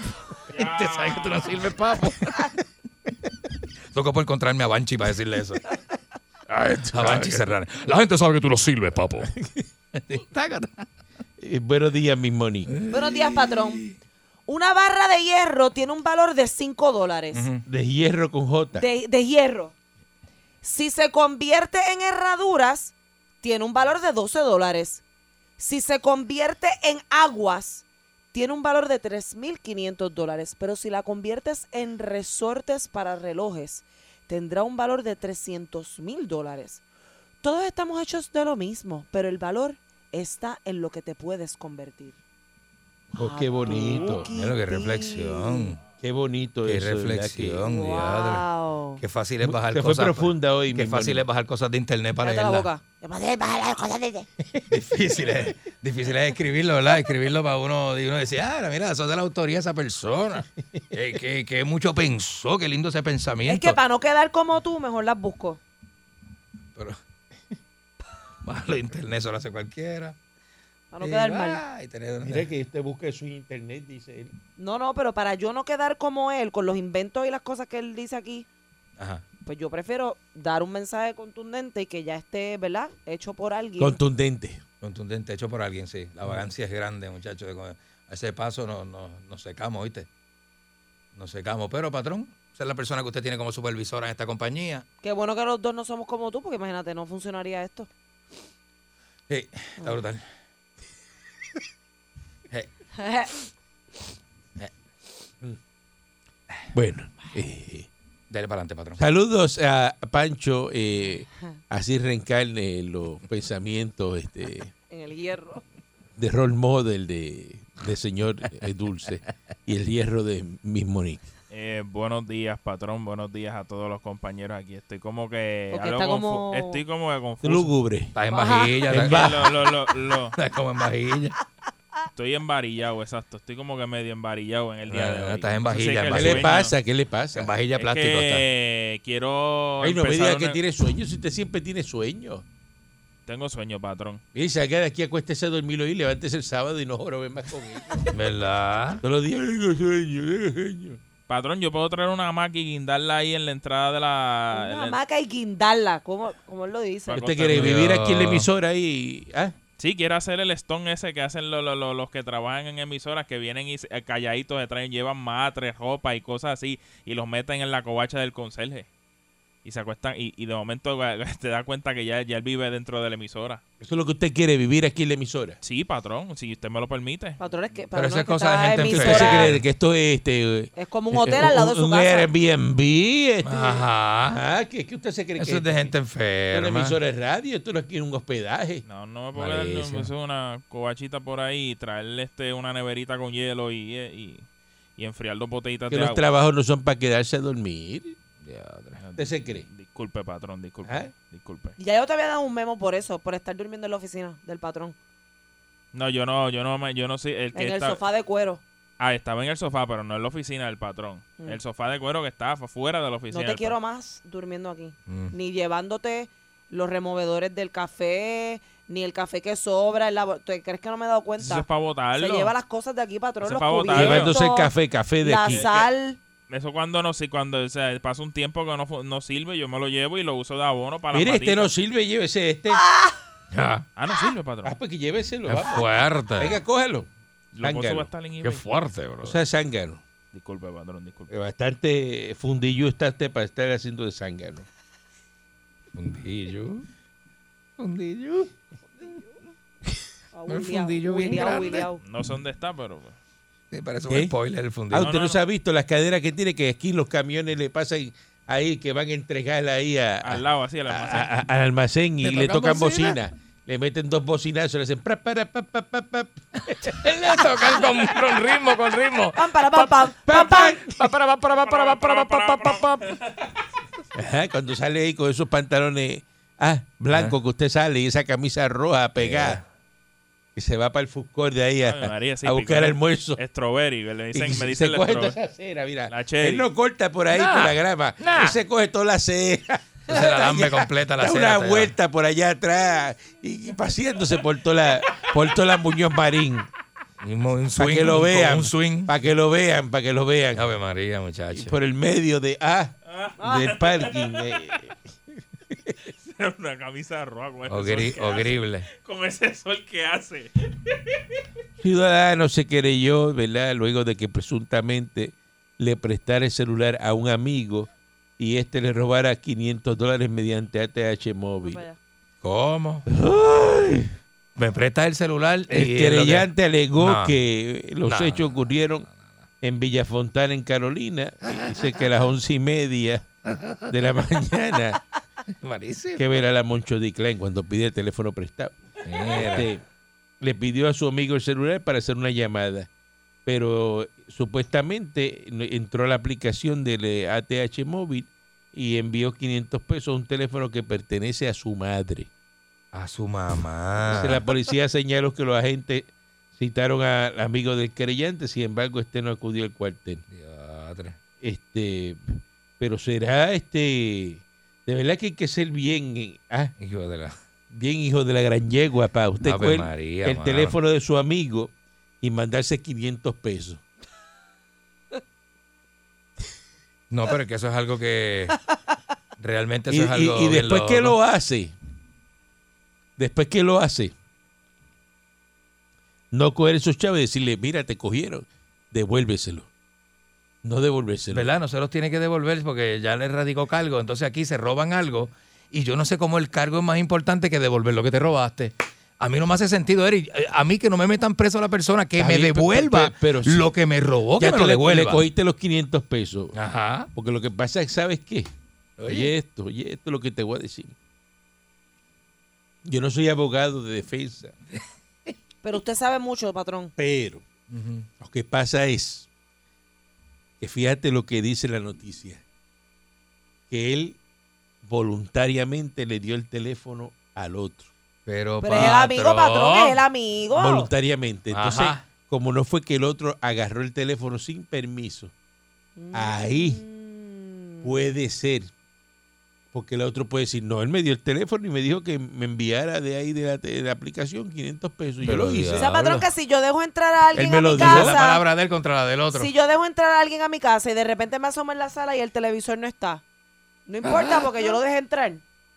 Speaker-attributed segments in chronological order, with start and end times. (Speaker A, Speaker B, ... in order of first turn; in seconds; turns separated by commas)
Speaker A: 0.5-1.7, Speaker B: 0.5-2.5, Speaker B: 3.9-5.6, Speaker C: 6.5-7.5, Speaker B: 6.9-9.3, Speaker C: 9.2-9.7, Speaker B: 9.9-10.9, Speaker C: 11.4-12.8, Speaker B: 12.7-13.9, Speaker D: 12.9-13.8, Speaker D: 14.5-17.5, Speaker B: 17.3-17.6, Speaker C: 17.7-18.9, Speaker D: 18.8-19.7, Speaker D: 20.6-25.0, Speaker D: 25.6-36.8, Speaker D: 37.4-42.2, Speaker C: 43.1-44.3, Speaker D: 43.2-45.7, Speaker B: 44.2-45.8, Speaker C: 46.0-47.6, Speaker B: 46.6-48.5, Speaker D: 47.7-49.0, Speaker B: 49.0-52.7, Speaker C: 49.4-51.2, Speaker D: 52.2-54.3, Speaker B: 54.7-63.8, Speaker D: 63.5-65.6, Speaker B: 68.4-70.2, Speaker D: 70.9-71.6, Speaker B: 71.0-72.5, Speaker C: 72.2-74.3, Speaker D: 74.6-78.5, Speaker B: 79.0-79.2, Speaker D: 79.5-84.0, Speaker C: 83.8-84.6, Speaker B: 84.8-90.1, Speaker B: 91.1-94.8, Speaker D: 95.0-97.9, Speaker B: 99.3-100.2, Speaker D: 103.0-103.3, Speaker C: 106.7-107.9, Speaker B: 108.3-109.0, Speaker C: 109.0-114.7, Speaker D: 114.9-115.6, Speaker C: 116.2-121.3, Speaker A: 121.5-127.7, Speaker D: 125.7-126.8, Speaker C: 127.4-128.2, Speaker B: 128.2-129.7, Speaker D: 128.3-128.8, Speaker C: 128.9-129.5, Speaker A: 128.9-130.3, Speaker B: 130.3-131.4, Speaker A: 132.1-136.8, Speaker B: 134.9-136.5, Speaker C: 136.1-137.5, Speaker B: 137.3-138.4, Speaker A: 137.8-140.6, Speaker C: 139.8-142.4, Speaker A: 143.3-144.2, Speaker C: 144.3-148.1, Speaker B: 148.1-149.0, Speaker C: 149.0-151.0, Speaker A: 151.3-155.0, Speaker D: 154.5-157.3, Speaker A: 157.1-157.8, Speaker C: 157.2-159.6, Speaker B: 157.5-158.5, Speaker A: 159.8-168.9, Speaker A: 169.6-173.6, Speaker C: 173.8-175.6, Speaker A: 175.6-177.4, Speaker D: 177.4-179.5, Speaker B: 177.9-179.7, Speaker C: 178.8-185.9, Speaker D: 180.8-182.3, Speaker B: 183.4-184.4, Speaker B: 185.4-187.0, Speaker C: 186.5-188.8, Speaker A: 188.8-194.5, Speaker B: 189.3-190.1, Speaker A: 195.0-196.2, Speaker C: 195.9-198.2, Speaker B: 198.4-199.0, Speaker A: 199.0-201.8, Speaker C: 199.2-199.7, Speaker D: 201.8-205.0, Speaker A: 205.9-208.0, Speaker D: 207.5-208.6, Speaker A: 209.0-213.8, Speaker D: 213.3-226.2, Speaker B: 215.1-215.3, Speaker A: 221.4-222.5, Speaker A: 223.4-224.3, Speaker C: 223.9-225.7, Speaker A: 225.5-225.9, Speaker A: 226.5-231.7, Speaker C: 231.1-232.8, Speaker B: 233.5-233.9, Speaker A: 234.0-234.8, Speaker C: 234.7-237.1, Speaker B: 235.5-236.6, Speaker A: 237.5-238.7, Speaker C: 237.6-238.1, Speaker B: 238.4-239.3, Speaker C: 239.2-240.0, Speaker A: 240.3-241.3, Speaker C: 241.3-244.7, Speaker B: 245.9-246.9, Speaker B: 247.8-248.5, Speaker D: 250.3-252.0, Speaker B: 250.5-251.9, Speaker A: 252.0-253.2, Speaker B: 253.7-255.1, Speaker C: 254.9-267.7, Speaker A: 254.9-255.4, Speaker A: 260.2-261.3, Speaker B: 262.2-263.2, Speaker B: 266.7-273.1, Speaker D: 269.4-270.8, Speaker C: 270.3-271.0, Speaker A: 271.5-273.5, Speaker C: 274.1-279.6, Speaker B: 277.1-277.4, Speaker B: 279.2-279.6, Speaker C: 280.6-283.4, Speaker A: 281.9-285.4, Speaker C: 284.3-296.7, Speaker A: 286.1-286.7, Speaker B: 287.3-288.6, Speaker B: 290.1-291.9, Speaker B: 297.2-299.1, Speaker C: 297.8-300.7, Speaker B: 300.5-301.8, Speaker C: 301.5-304.9, Speaker A: 303.1-304.5, Speaker D: 303.4-303.7, Speaker A: 306.2-310.9, Speaker B: 307.7-308.9, Speaker C: 311.8-321.8, Speaker D: 321.6-322.0, Speaker B: 322.4-323.1, Speaker C: 323.1-324.1, Speaker B: 324.6-327.4, Speaker C: 325.7-329.1, Speaker B: 328.0-328.6, Speaker C: 329.6-333.2, Speaker B: 331.5-331.9, Speaker B: 333.5-334.0, Speaker C: 333.9-335.0, Speaker B: 335.5-336.3, Speaker C: 336.2-338.8, Speaker B: 339.0-339.7, Speaker C: 339.3-339.8, Speaker C: 340.4-342.9, Speaker C: 343.4-352.3, Speaker B: 352.9-354.4, Speaker C: 354.1-360.2, Speaker B: 360.3-361.2, Speaker C: 361.4-366.7, Speaker B: 366.8-367.4, Speaker C: 367.7-373.8, Speaker B: 369.4-370.8, Speaker B: 377.1-378.6, Speaker B: 379.4-381.2, Speaker C: 379.9-381.7, Speaker C: 383.2-384.1, Speaker C: 386.3-389.7, Speaker C: 390.6-391.5, Speaker B: 391.3-405.2, Speaker C: 402.2-403.7, Speaker C: 404.4-406.6, Speaker B: 406.5-407.1, Speaker C: 407.1-408.5, Speaker B: 409.0-409.3, Speaker C: 409.1-410.9, Speaker C: 412.9-414.5, Speaker D: 415.6-416.9, Speaker C: 417.0-417.4, Speaker B: 417.7-418.1, Speaker C: 418.2-419.3, Speaker C: 420.6-422.4, Speaker C: 423.7-424.2, Speaker C: 424.8-427.9, Speaker B: 428.3-430.0, Speaker D: 428.6-430.9, Speaker C: 430.5-435.3, Speaker B: 431.5-432.1, Speaker D: 436.0-437.9, Speaker C: 436.1-436.8, Speaker C: 437.8-438.7, Speaker C: 439.7-445.9, Speaker B: 445.2-446.2, Speaker D: 445.8-448.4, Speaker C: 447.3-448.2, Speaker B: 447.7-449.5, Speaker D: 449.3-453.2, Speaker D: 453.9-455.4, Speaker B: 454.1-454.4